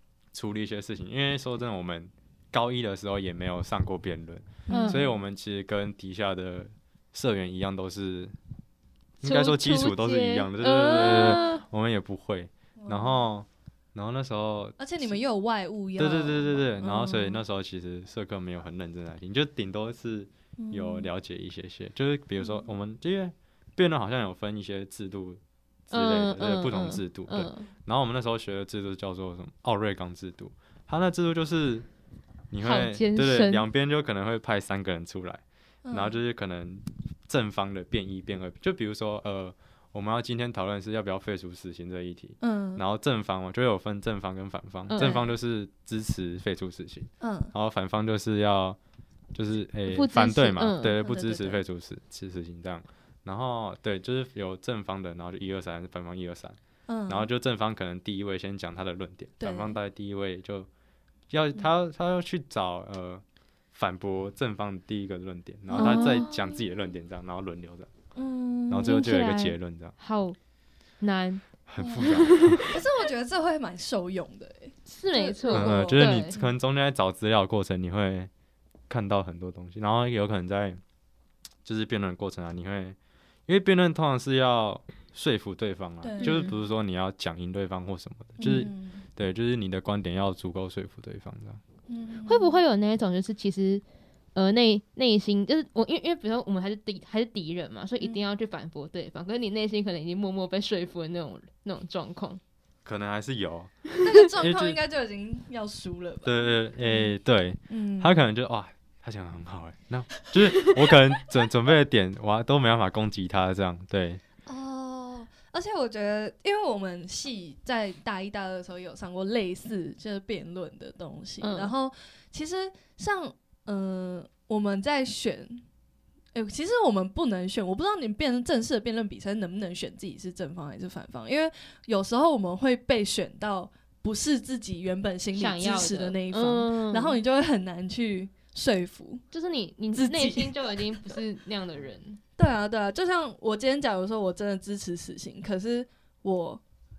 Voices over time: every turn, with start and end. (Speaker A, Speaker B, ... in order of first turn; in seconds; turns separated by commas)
Speaker A: 0.3-8.3, Speaker B: 4.7-5.2, Speaker C: 4.7-5.0, Speaker A: 9.2-15.2, Speaker C: 9.2-11.6, Speaker B: 12.8-13.2, Speaker B: 14.8-17.4, Speaker A: 16.0-31.9, Speaker B: 20.6-21.1, Speaker B: 22.4-22.7, Speaker C: 25.9-27.7, Speaker A: 32.5-48.8, Speaker C: 32.6-33.6, Speaker B: 35.8-36.2, Speaker B: 42.4-42.8, Speaker C: 44.9-45.2, Speaker B: 44.9-45.3, Speaker B: 47.2-47.5, Speaker A: 49.3-56.6, Speaker C: 49.9-50.9, Speaker B: 51.0-51.6, Speaker B: 56.9-57.3, Speaker A: 57.1-60.7, Speaker B: 59.4-59.8, Speaker A: 61.3-67.9, Speaker C: 65.7-66.6, Speaker B: 65.7-66.2, Speaker B: 68.1-69.0, Speaker A: 68.7-69.9, Speaker C: 68.8-70.4, Speaker C: 71.0-72.7, Speaker A: 71.7-72.7, Speaker B: 72.6-76.5, Speaker C: 74.8-76.3, Speaker A: 75.5-78.3, Speaker A: 78.9-80.8, Speaker A: 81.6-91.6, Speaker B: 86.0-86.5, Speaker C: 86.2-86.5, Speaker B: 88.4-89.0, Speaker B: 91.9-92.6, Speaker C: 92.2-93.8, Speaker C: 94.3-102.4, Speaker A: 102.8-103.7, Speaker B: 104.0-107.1, Speaker A: 104.2-104.8, Speaker A: 106.2-114.2, Speaker B: 107.7-108.3, Speaker B: 114.5-125.6, Speaker C: 121.4-121.7, Speaker B: 126.3-139.2, Speaker C: 135.3-137.2, Speaker C: 139.3-142.2, Speaker B: 139.9-140.8, Speaker B: 142.4-146.6